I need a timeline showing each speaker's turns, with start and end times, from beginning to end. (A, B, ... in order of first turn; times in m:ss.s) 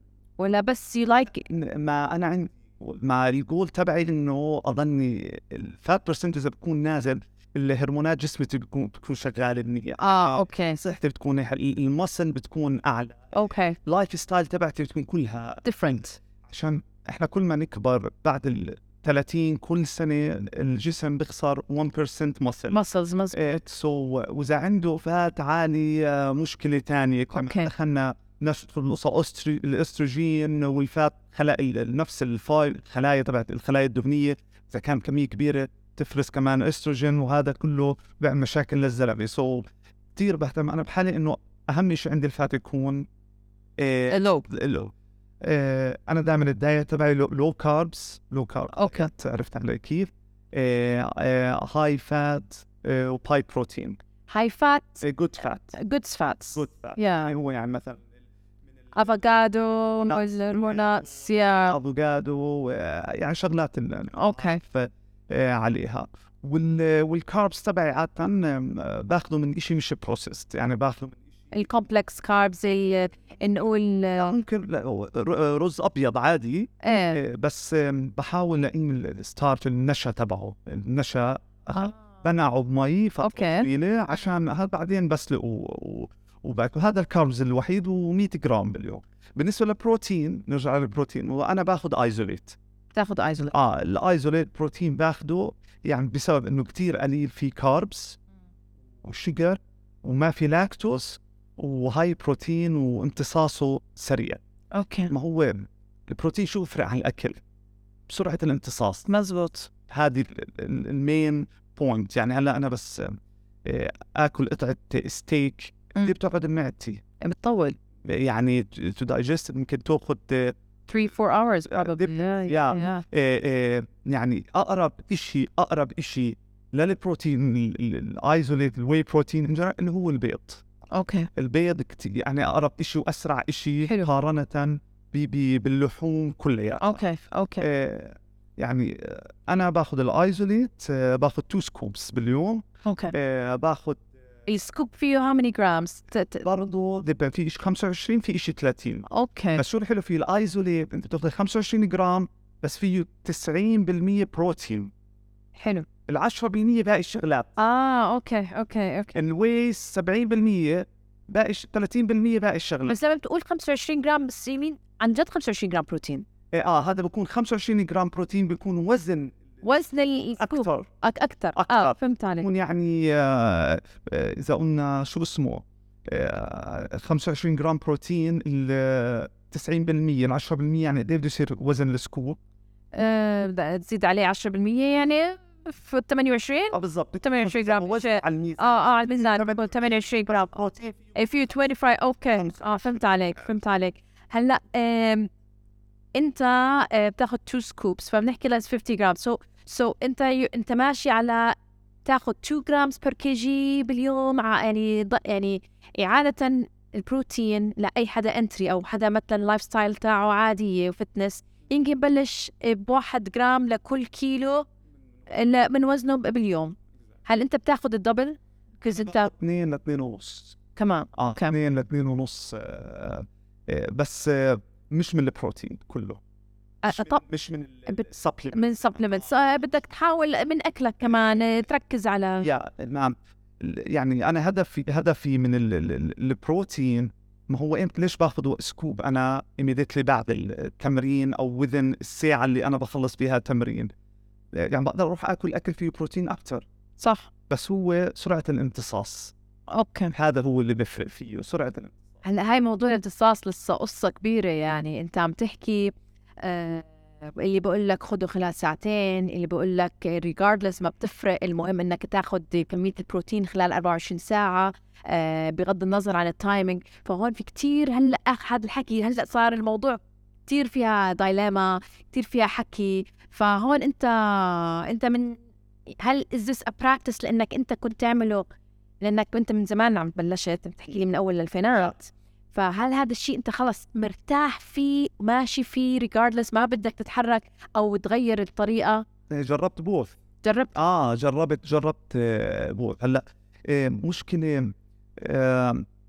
0:00.4-0:01.4 A
0:01.4-0:13.3 B
0:10.0-0:10.8 A
0:13.3-0:13.8 A
0:13.8-0:15.6 B
0:15.6-0:16.2 A
0:16.4-0:22.8 B
0:22.7-0:23.4 A
0:23.3-0:43.1 B
0:27.3-0:27.7 A
0:43.8-0:54.0 B
0:44.1-0:44.5 A
0:48.7-0:49.1 A
0:54.3-0:55.0 A
0:55.0-0:55.8 B
0:55.7-0:57.3 A
0:56.5-0:58.0 B
0:58.9-1:01.8 A
1:00.1-1:00.8 B
1:01.7-1:11.2 B
1:04.2-1:04.6 A
1:11.5-1:14.3 A
1:14.2-1:32.6 B
1:16.8-1:17.2 A
1:21.7-1:22.0 A
1:23.2-1:23.7 A
1:33.0-1:33.6 A
1:33.5-1:38.2 B
1:39.0-1:44.4 B
1:44.7-1:45.1 A
1:45.1-1:47.4 B
1:48.1-1:49.1 B
1:49.1-1:49.7 A
1:49.9-1:57.0 B
1:57.2-1:57.8 A
1:58.0-2:00.6 B
2:00.9-2:03.0 A
2:01.7-2:10.6 B
2:10.9-2:11.3 A
2:11.3-2:17.0 B
2:13.8-2:14.1 A
2:16.8-2:17.7 A
2:17.6-2:24.0 B
2:22.8-2:23.2 A
2:24.5-2:26.5 A
2:26.4-2:34.9 B
2:29.1-2:29.6 A
2:35.6-2:35.9 A
2:36.1-2:37.6 B
2:37.6-2:39.2 A
2:39.1-2:43.0 B
2:42.9-2:46.3 A
2:46.5-2:49.4 B
2:49.6-2:52.5 A
2:50.4-2:50.9 B
2:51.6-3:02.4 B
3:02.9-3:10.5 A
3:06.7-3:09.7 B
3:10.2-3:11.0 B
3:11.2-3:15.3 A
3:16.1-3:34.7 A
3:35.3-3:39.3 A
3:39.0-3:40.6 B
3:40.8-3:41.6 A
3:41.2-3:46.2 B
3:46.8-3:47.2 A
3:46.9-3:49.3 B
3:47.9-3:52.5 A
3:52.4-4:03.9 B
4:04.5-4:06.6 B
4:07.0-4:07.3 A
4:07.5-4:09.3 B
4:09.7-4:10.1 A
4:10.1-4:12.0 B
4:12.2-4:38.5 A
4:39.0-4:49.0 A
4:49.3-4:50.2 B
4:50.4-4:50.8 A
4:50.8-4:55.9 B